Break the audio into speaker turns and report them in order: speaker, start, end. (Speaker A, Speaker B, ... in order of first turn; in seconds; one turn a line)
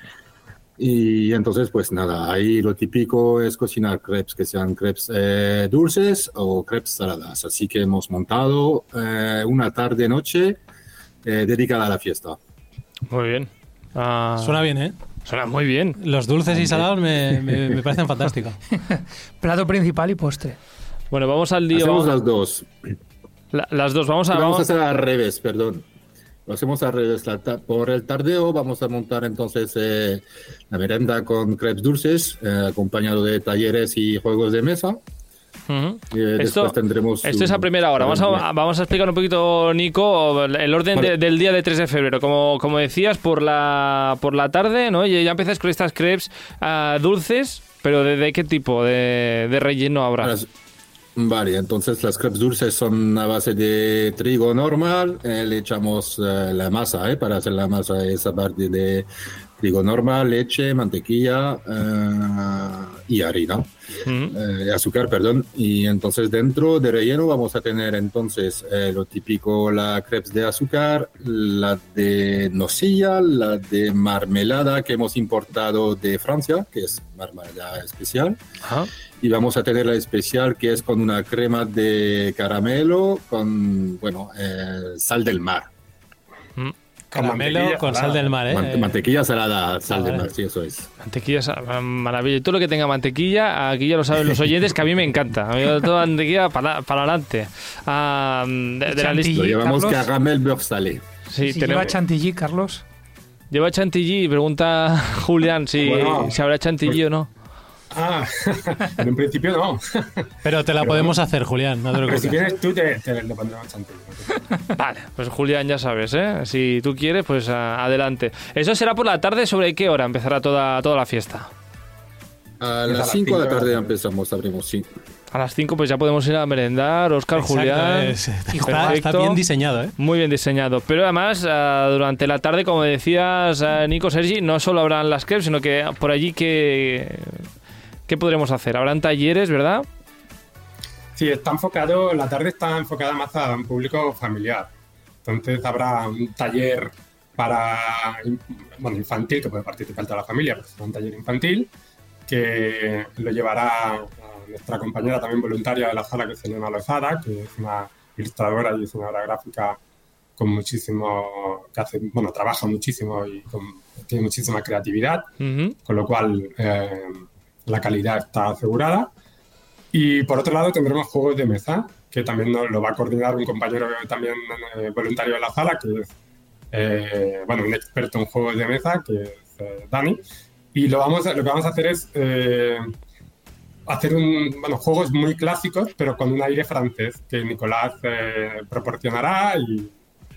Speaker A: 0.8-10.6
Speaker A: 11.2-12.4
Speaker B: 13.1-14.6
Speaker C: 14.4-15.0
Speaker B: 15.2-16.0
Speaker C: 16.0-18.6
Speaker A: 16.5-17.5
Speaker D: 18.8-20.6
Speaker B: 21.1-22.1
Speaker A: 21.7-22.7
Speaker B: 23.5-24.7
Speaker A: 24.3-25.9
Speaker A: 26.5-35.0
Speaker B: 35.7-50.3
Speaker A: 36.1-38.5
Speaker A: 50.2-50.5
Speaker A: 51.2-59.1
Speaker A: 59.6-63.7
Speaker B: 64.1-64.4
Speaker A: 64.3-78.4
Speaker B: 78.6-78.9
Speaker A: 79.2-85.7
Speaker C: 87.1-88.9
Speaker E: 87.1-88.4
Speaker A: 88.5-90.9
Speaker C: 89.9-90.3
Speaker B: 91.0-99.5
Speaker D: 98.9-100.1
Speaker A: 99.3-101.0
Speaker B: 101.3-102.0
Speaker D: 101.4-102.8
Speaker B: 103.5-107.3
Speaker E: 105.8-107.0
Speaker E: 107.9-111.2
Speaker C: 110.4-112.4
Speaker E: 112.0-114.4
Speaker B: 114.8-121.5
Speaker A: 122.6-124.9
Speaker E: 122.9-123.9
Speaker B: 125.3-129.4
Speaker C: 127.4-129.9
Speaker D: 128.5-129.0
Speaker B: 130.0-137.4
Speaker B: 138.1-139.9
Speaker E: 141.2-144.7
Speaker E: 145.2-151.7
Speaker E: 152.3-159.8
Speaker E: 160.4-165.3
Speaker B: 165.4-165.8
Speaker E: 165.8-169.1
Speaker E: 169.9-176.1
Speaker E: 176.7-180.2
Speaker E: 180.7-182.9
Speaker E: 183.9-189.9